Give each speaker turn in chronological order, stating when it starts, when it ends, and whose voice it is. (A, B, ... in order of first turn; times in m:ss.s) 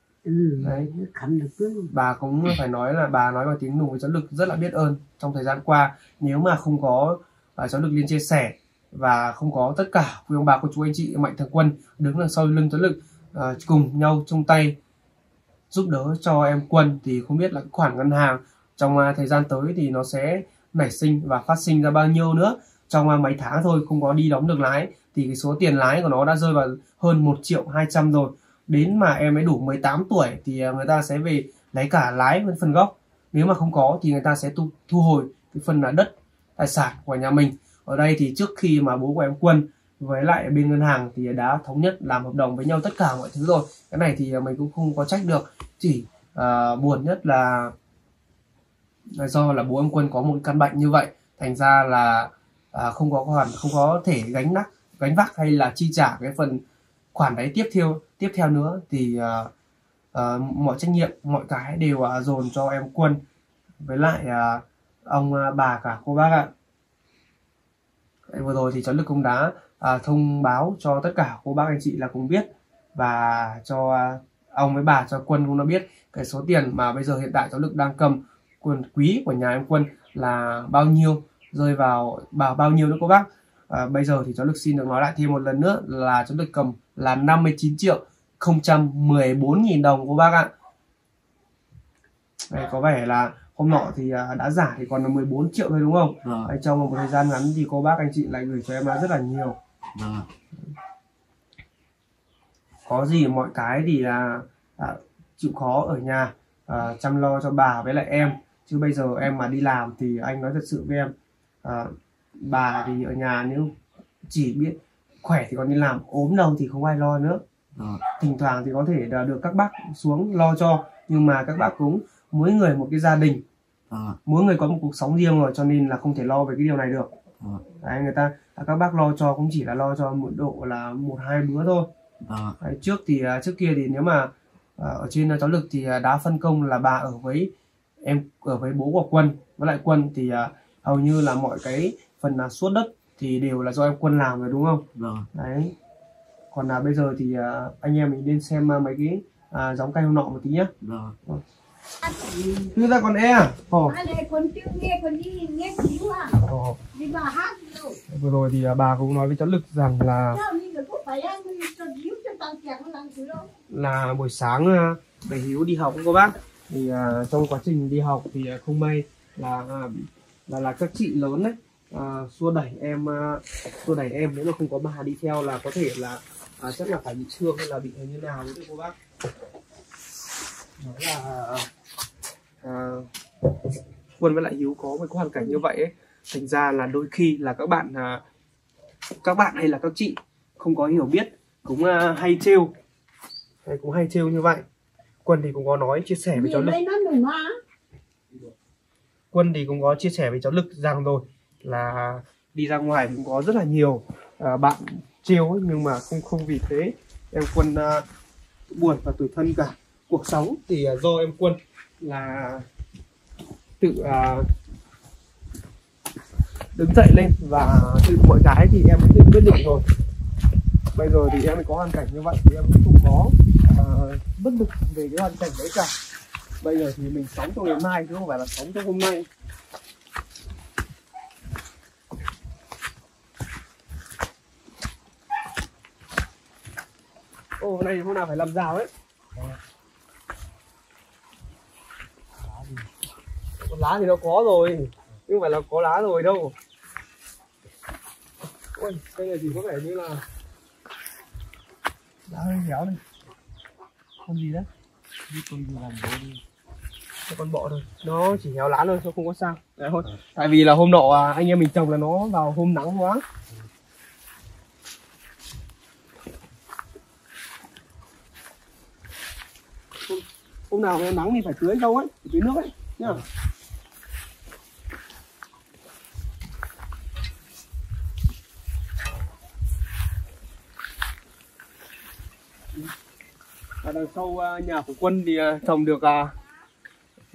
0:00.2-0:01.9 A
0:00.6-0:00.9 B
0:01.9-0:14.8 B
0:15.7-0:47.7 B
0:49.2-0:56.6 B
0:57.1-0:59.5 B
1:00.1-1:03.2 B
1:03.8-1:06.5 B
1:08.3-1:30.5 B
1:32.5-1:39.6 B
1:36.2-1:36.5 C
1:39.9-1:40.3 C
1:42.9-1:53.8 B
1:54.3-1:57.4 B
1:57.8-1:58.0 C
1:58.2-2:03.4 B
2:03.9-2:04.2 C
2:04.3-2:07.1 B
2:07.4-2:07.6 C
2:07.8-2:11.9 B
2:12.2-2:12.6 C
2:12.6-2:17.5 B
2:18.0-2:25.7 B
2:25.0-2:25.3 C
2:26.5-2:30.7 B
2:30.8-2:31.2 C
2:32.0-2:32.7 A
2:32.7-2:33.9 B
2:33.9-2:38.0 A
2:36.4-2:36.8 B
2:38.1-2:40.4 B
2:40.3-2:43.5 A
2:43.7-2:59.0 B
3:00.8-3:01.7 B
3:02.6-3:03.1 B
3:04.2-3:08.2 B
3:09.2-3:12.7 B
3:13.6-3:14.6 B
3:15.2-3:16.8 B
3:16.3-3:17.6 A
3:19.3-3:28.0 B
3:28.7-3:32.7 B
3:33.8-3:34.5 B
3:36.8-3:39.8 B
3:40.9-3:45.9 B
3:46.6-3:49.3 B
3:57.6-3:58.9 B
4:03.6-4:06.6 B
4:08.8-4:10.2 B
4:12.3-4:13.0 B
4:14.2-4:14.7 B
4:15.3-4:16.4 C
4:17.3-4:23.2 B
4:30.1-4:33.2 B
4:43.8-4:46.4 B